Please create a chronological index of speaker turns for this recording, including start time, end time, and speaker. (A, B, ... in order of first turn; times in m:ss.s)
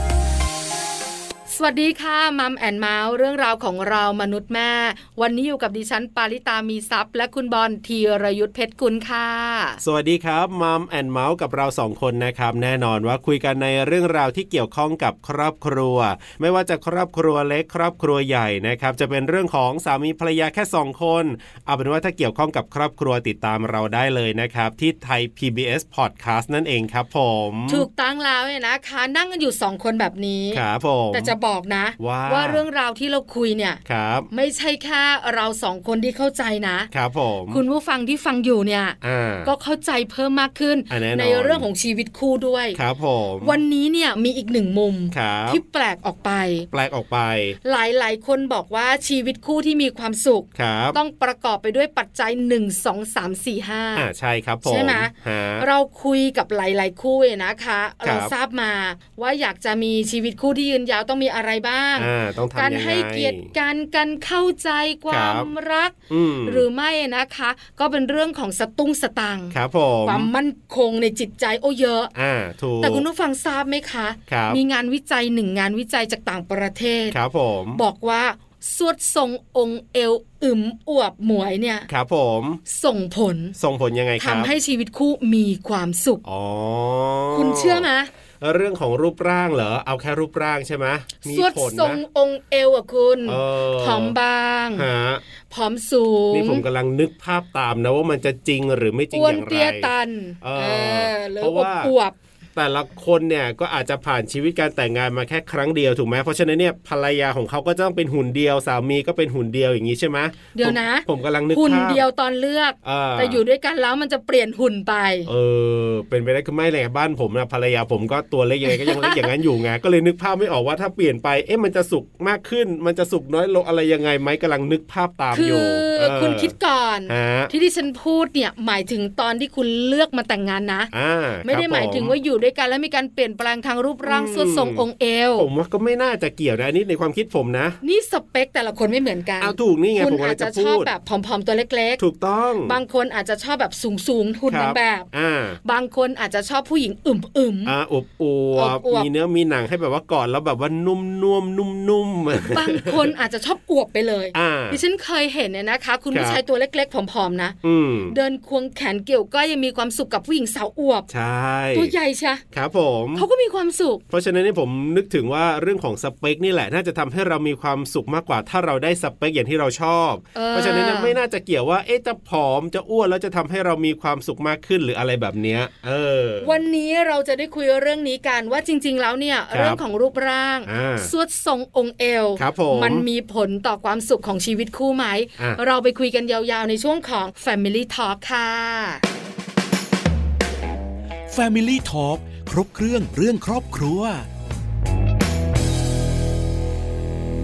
0:01.5-0:09.8 A
0:09.8-0:27.9 B
0:27.7-0:36.9 A
0:30.5-0:31.3 B
0:32.0-0:32.6 B
0:33.8-0:34.3 B
0:36.9-0:37.6 B
0:37.5-0:42.8 A
0:39.0-0:39.5 B
0:40.9-0:41.7 B
0:42.7-0:43.6 B
0:43.4-0:46.7 A
0:45.1-0:45.6 B
0:46.7-0:47.6 B
0:47.6-0:54.1 A
0:50.5-0:51.0 B
0:53.9-0:55.7 B
0:54.6-1:12.1 A
0:58.0-0:58.3 B
1:02.0-1:03.5 B
1:05.1-1:05.5 B
1:06.1-1:06.6 B
1:09.5-1:10.3 B
1:12.1-1:13.0 B
1:12.8-1:17.2 A
1:14.3-1:14.6 B
1:17.1-1:17.8 B
1:17.7-1:21.9 A
1:21.9-1:22.6 B
1:22.6-1:23.6 A
1:23.6-1:24.5 B
1:24.2-1:26.2 A
1:26.2-1:27.9 B
1:27.3-1:28.1 A
1:28.4-1:32.0 B
1:31.2-1:34.9 A
1:33.2-1:34.1 B
1:34.7-1:35.2 B
1:35.5-1:36.6 A
1:36.3-1:39.9 B
1:39.1-1:42.2 A
1:40.4-1:41.9 B
1:42.6-1:52.0 B
1:50.5-1:55.3 A
1:52.8-1:53.4 B
1:55.2-2:06.5 B
1:58.6-1:59.3 A
2:05.3-2:10.9 A
2:07.1-2:07.5 B
2:10.9-2:12.1 B
2:11.4-2:15.5 A
2:14.0-2:14.8 B
2:15.4-2:17.8 B
2:17.8-2:22.0 A
2:19.4-2:20.9 B
2:22.0-2:22.8 B
2:22.6-2:25.1 A
2:24.5-2:25.6 B
2:25.6-2:27.7 A
2:27.6-2:33.1 B
2:28.5-2:29.1 A
2:32.5-2:37.6 A
2:34.3-2:34.8 B
2:36.1-2:36.4 B
2:37.6-2:38.1 B
2:38.1-2:41.1 A
2:41.1-2:41.9 B
2:41.7-2:42.4 A
2:42.5-2:43.3 B
2:43.1-2:44.0 A
2:44.1-2:56.6 B
2:50.3-2:51.2 A
2:56.4-3:09.0 A
2:59.5-2:59.8 B
3:00.6-3:01.1 B
3:02.4-3:03.0 B
3:11.3-3:14.3 C